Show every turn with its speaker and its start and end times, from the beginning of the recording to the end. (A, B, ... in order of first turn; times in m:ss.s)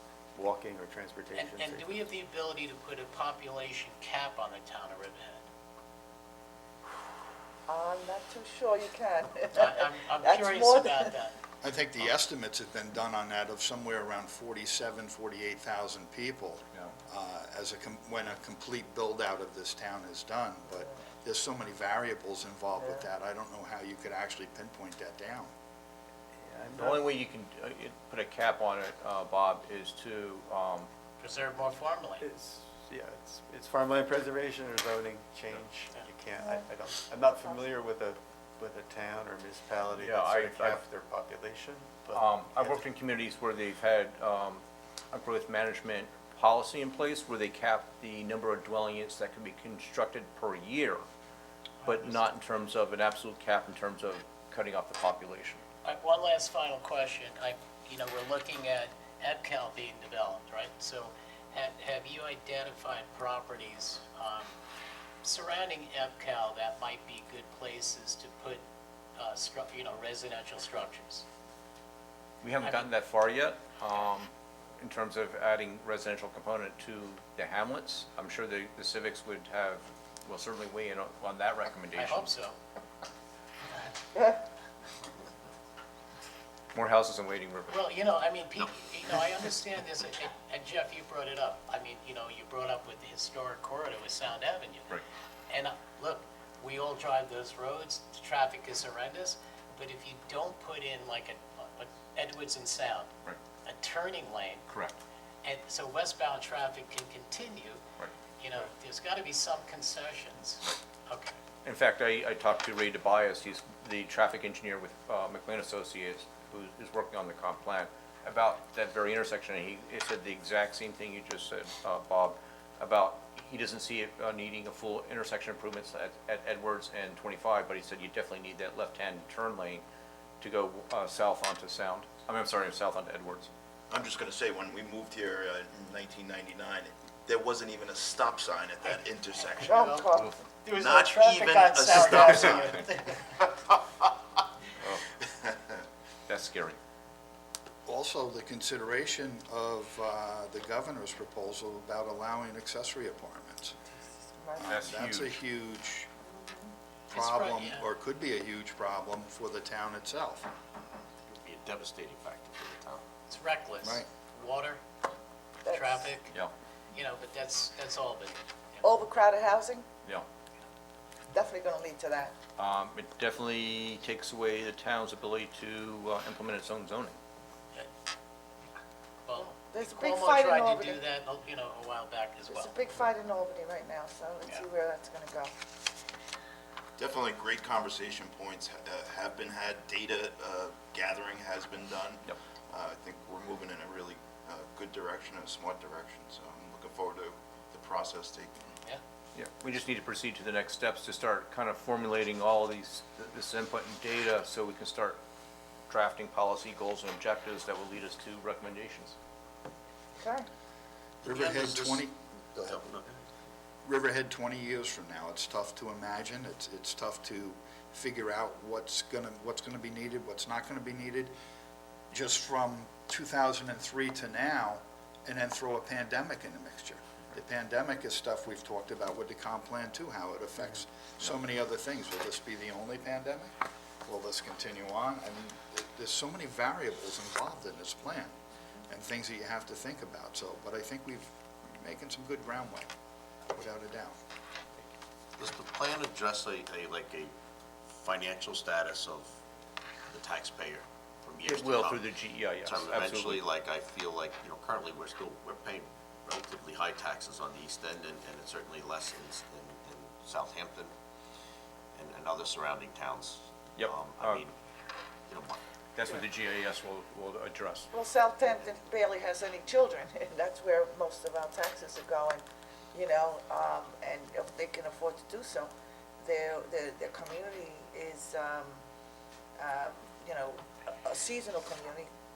0:00.3-0:02.1 A
0:01.4-0:05.4 B
0:07.7-0:11.1 C
0:09.5-0:11.3 B
0:11.6-0:25.5 D
0:26.4-0:27.1 A
0:26.8-0:30.9 E
0:31.2-0:32.2 B
0:32.2-0:42.8 A
0:40.0-0:40.8 E
0:42.1-0:51.0 E
0:51.8-0:52.2 B
0:51.8-0:55.6 E
0:55.8-1:04.5 B
1:05.2-1:08.6 B
1:09.2-1:11.2 B
1:12.4-1:22.3 E
1:12.6-1:12.9 B
1:22.0-1:22.6 B
1:26.7-1:27.8 E
1:27.7-1:34.9 B
1:35.5-1:43.1 B
1:43.6-1:44.7 B
1:44.7-1:45.0 E
1:45.4-1:47.8 B
1:48.4-1:51.3 B
1:51.6-2:09.8 E
2:10.4-2:13.5 E
2:13.9-2:20.1 F
2:19.6-2:20.3 C
2:19.6-2:20.1 B
2:20.6-2:23.2 B
2:20.7-2:24.1 F
2:25.2-2:25.8 F
2:26.3-2:26.8 E
2:27.9-2:33.8 D
2:34.4-2:34.8 C
2:34.6-2:36.1 D
2:34.7-2:35.4 E
2:36.3-2:36.7 C
2:37.1-2:37.9 B
2:37.1-2:40.5 D
2:41.3-2:43.0 G
2:43.3-2:44.8 B
2:45.6-2:46.0 C
2:45.7-2:46.3 B
2:46.9-2:48.9 B
2:48.8-2:49.9 C
2:51.3-2:52.4 C
2:52.6-2:57.2 E
2:59.3-3:02.7 B
2:59.4-3:01.0 C
3:02.5-3:05.5 C
3:07.0-3:18.6 F
3:19.4-3:25.2 E
3:25.9-3:29.2 E
3:30.2-3:30.5 C
3:31.2-3:33.2 G
3:31.2-3:32.8 D
3:33.8-3:41.3 D
3:42.1-3:53.5 D
3:54.0-3:58.3 D
3:58.9-4:02.9 D
4:03.5-4:04.2 D
4:05.4-4:07.3 G
4:07.9-4:09.3 G
4:10.1-4:12.1 G
4:11.4-4:13.5 E
4:12.6-4:20.9 G
4:22.0-4:24.5 G
4:23.8-4:24.4 E
4:25.3-4:25.6 G
4:26.0-4:27.9 E
4:27.9-4:35.7 C
4:36.2-4:38.8 C
4:39.6-4:42.1 C